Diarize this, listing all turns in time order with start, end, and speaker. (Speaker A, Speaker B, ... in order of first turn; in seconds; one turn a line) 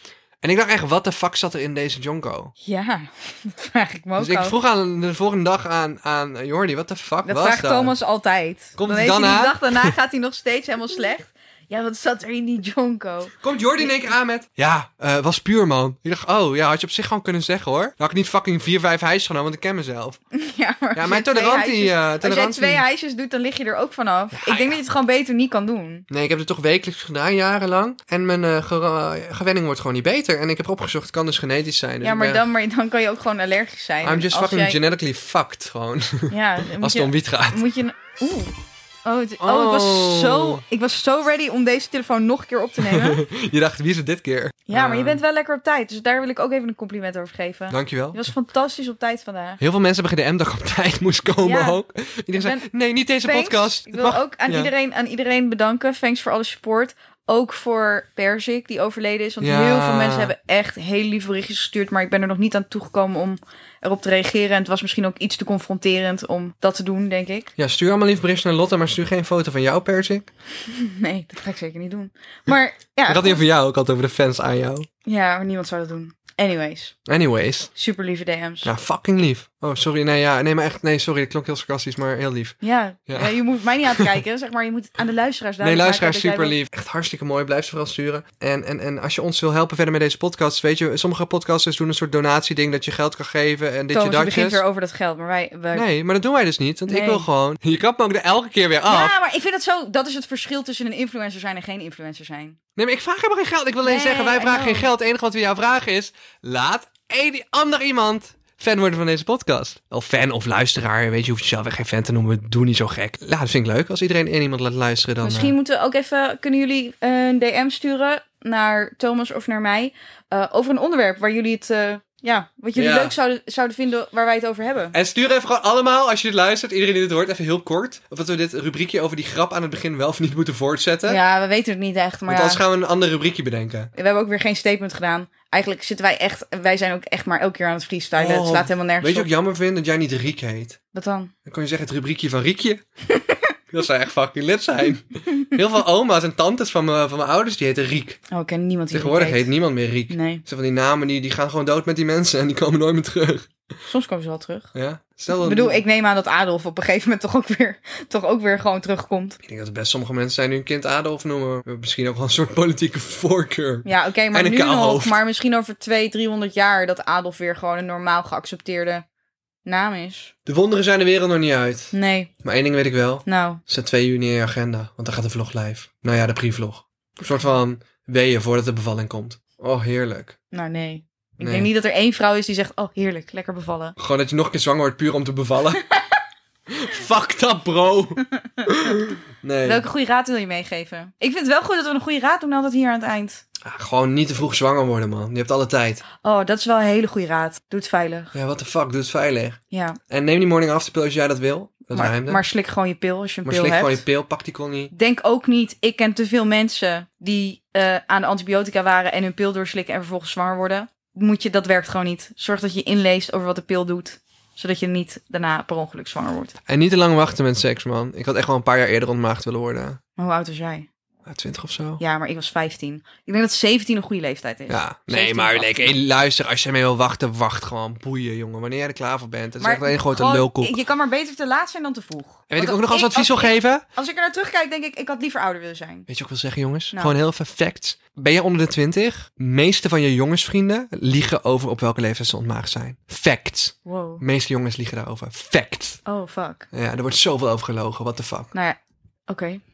Speaker A: 0.4-2.5
Speaker B: 2.6-4.5
Speaker A: 4.2-7.9
Speaker B: 7.2-14.1
Speaker A: 8.8-9.9
Speaker A: 13.4-20.2
Speaker B: 20.3-26.1
Speaker A: 20.9-22.8
Speaker A: 24.3-24.8
Speaker A: 26.1-32.4
Speaker B: 32.0-34.8
Speaker A: 34.0-37.6
Speaker B: 36.3-43.2
Speaker A: 39.4-40.6
Speaker A: 42.9-45.2
Speaker B: 44.7-49.6
Speaker A: 47.7-48.3
Speaker A: 49.6-54.7
Speaker B: 51.4-51.8
Speaker B: 52.4-52.7
Speaker B: 53.2-67.5
Speaker A: 59.4-60.3
Speaker A: 67.6-70.3
Speaker B: 70.6-73.4
Speaker A: 73.0-74.9
Speaker B: 75.0-76.9
Speaker A: 77.1-77.7
Speaker B: 77.7-78.7
Speaker A: 78.6-82.5
Speaker B: 82.6-86.5
Speaker A: 83.1-83.4
Speaker A: 85.6-94.6
Speaker B: 93.9-95.8
Speaker A: 95.7-99.1
Speaker B: 96.9-97.2
Speaker B: 98.8-102.6
Speaker A: 102.8-115.5
Speaker B: 103.8-104.9
Speaker B: 115.2-124.9
Speaker A: 122.7-123.1
Speaker A: 124.9-131.2
Speaker B: 131.1-132.6
Speaker A: 132.3-133.9
Speaker B: 133.9-139.3
Speaker A: 138.2-140.8
Speaker B: 140.9-141.3
Speaker A: 141.4-142.8
Speaker B: 143.1-143.5
Speaker A: 143.7-148.2
Speaker B: 148.3-149.5
Speaker A: 148.9-153.5
Speaker B: 150.1-150.4
Speaker B: 153.9-154.7
Speaker A: 154.7-155.8
Speaker B: 155.3-159.4
Speaker A: 159.4-165.2
Speaker B: 163.8-169.0
Speaker B: 169.6-170.3
Speaker A: 170.4-180.4
Speaker B: 171.9-172.3
Speaker B: 173.2-173.6
Speaker B: 180.5-183.9
Speaker A: 181.4-181.7
Speaker A: 184.0-185.8
Speaker A: 186.7-189.8
Speaker B: 189.6-193.4
Speaker A: 193.6-196.0
Speaker B: 196.2-198.3
Speaker A: 198.3-202.4
Speaker B: 199.7-200.0
Speaker B: 201.9-204.0
Speaker A: 203.4-204.9
Speaker B: 204.9-216.5
Speaker A: 216.7-220.0
Speaker B: 220.2-220.9
Speaker A: 221.2-222.0
Speaker B: 222.0-225.9
Speaker A: 224.7-230.8
Speaker B: 229.6-236.1
Speaker A: 232.5-233.8
Speaker A: 236.1-246.0
Speaker B: 243.8-244.2
Speaker B: 246.1-246.7
Speaker A: 246.7-248.5
Speaker B: 248.5-249.6